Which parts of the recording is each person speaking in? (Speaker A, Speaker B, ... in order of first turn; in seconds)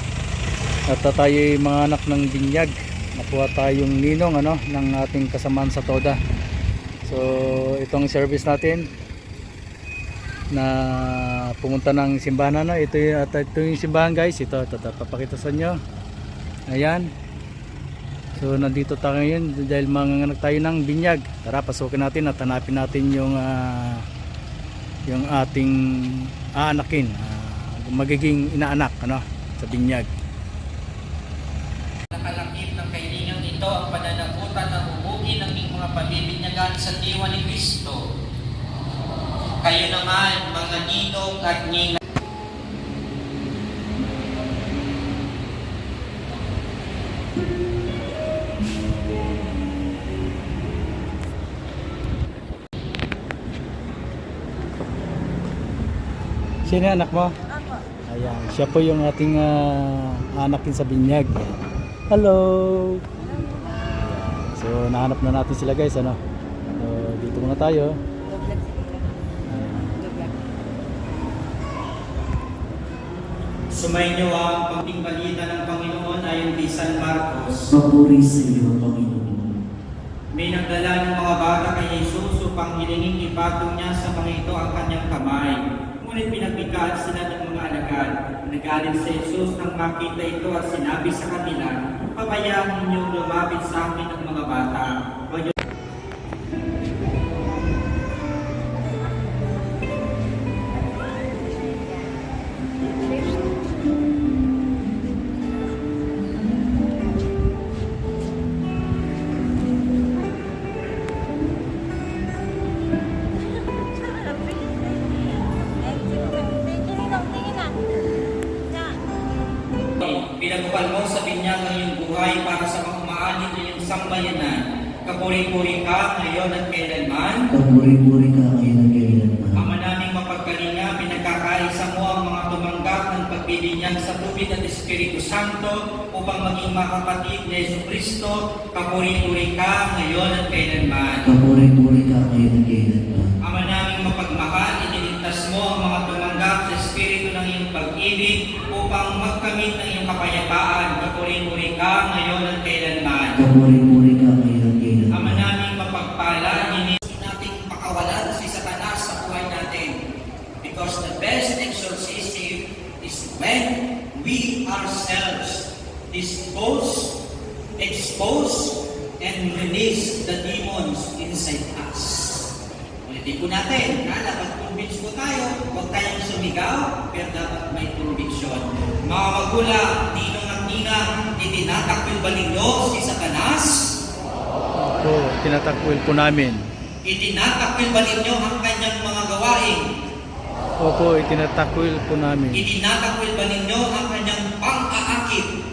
Speaker A: 0.9-6.2, 7.0-8.9, 10.5-15.8, 16.7-17.1, 18.4-24.0, 25.1-30.1, 56.6-57.3, 58.1-63.0, 64.0-66.2, 66.8-68.0, 69.5-70.0, 184.8-186.6, 190.8-192.6
Speaker B: 32.1-38.0, 39.6-42.0, 73.7-77.7, 80.3-95.5, 120.0-127.4, 129.6-141.2, 143.4-153.4, 155.1-159.9, 160.6-167.1, 167.8-172.5, 173.1-183.8, 187.1-189.8, 192.5-195.5
Speaker C: 77.7-79.6, 127.5-129.6, 141.2-143.3, 153.3-155.4